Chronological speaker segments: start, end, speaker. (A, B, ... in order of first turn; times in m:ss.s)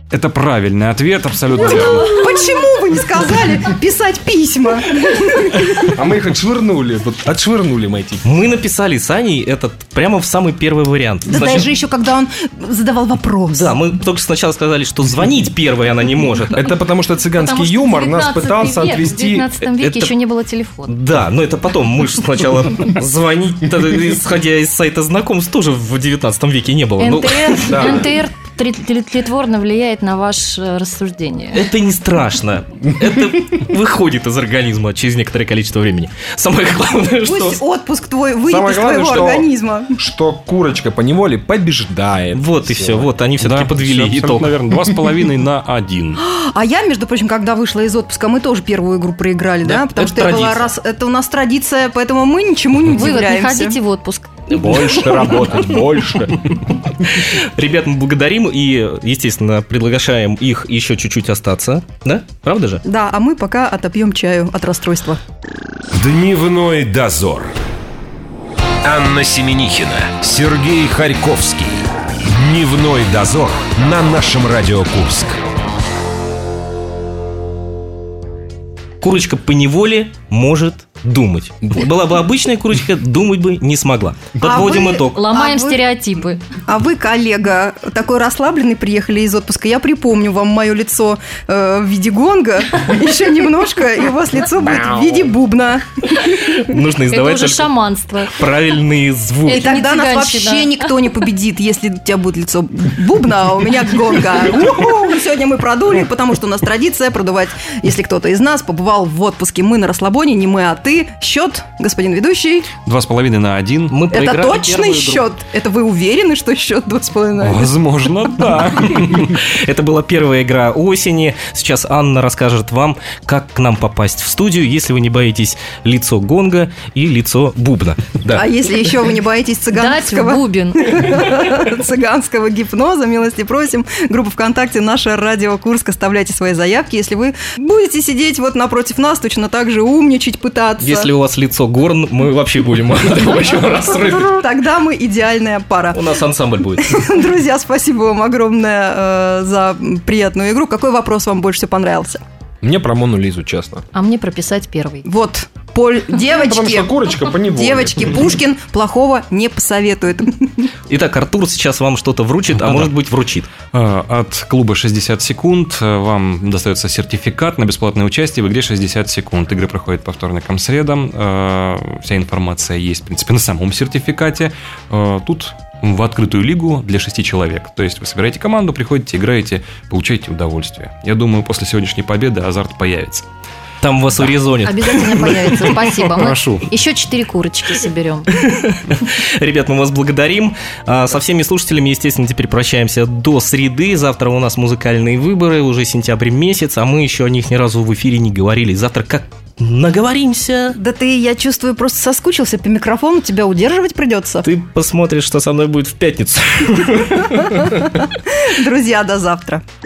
0:00.1-0:02.2 A
0:01.7-0:05.9 B
0:05.8-0:08.2 C
0:08.2-0:11.7 D
0:11.3-0:13.8 B
0:13.5-0:16.7 D
0:16.5-0:19.7 C
0:17.4-0:18.2 E
0:18.2-0:18.6 F
0:19.4-0:20.9 F
0:19.7-0:20.2 D
0:20.8-0:28.1 D
0:27.6-0:28.1 C
0:28.0-0:31.6 F
0:31.5-0:37.6 D
0:37.2-0:39.9 B
0:38.5-0:43.1 C
0:42.3-0:44.6 D
0:43.4-0:46.2 A
0:46.2-0:53.8 B
0:49.6-0:50.7 D
0:52.9-0:53.4 E
0:53.4-0:54.2 F
0:54.5-1:02.8 D
0:54.5-0:57.0 C
1:02.9-1:05.2 B
1:05.9-1:07.5 E
1:08.8-1:15.4 E
1:19.0-1:25.3 D
1:24.4-1:25.9 B
1:25.2-1:26.3 F
1:26.6-1:36.8 B
1:34.7-1:35.0 C
1:36.1-1:39.7 D
1:37.3-1:38.2 F
1:39.5-1:52.7 B
1:39.8-1:40.2 F
1:52.8-1:54.0 A
1:53.9-1:55.3 D
1:54.1-1:57.7 B
1:57.4-1:59.4 A
1:59.0-2:08.5 D
2:08.3-2:21.1 B
2:09.8-2:10.8 F
2:20.8-2:24.4 D
2:23.9-2:26.2 B
2:25.9-2:27.0 D
2:26.8-2:32.2 B
2:32.6-2:33.9 C
2:33.9-2:35.0 F
2:35.0-2:40.7 B
2:36.3-2:38.4 C
2:40.9-2:43.5 D
2:42.6-2:42.9 A
2:43.7-3:03.3 A
3:03.8-3:06.3 D
3:04.7-3:06.2 F
3:05.7-3:06.8 A
3:06.3-3:07.2 E
3:06.8-3:08.3 F
3:07.7-3:20.8 D
3:20.8-3:24.5 B
3:24.4-3:28.0 D
3:27.5-3:29.6 B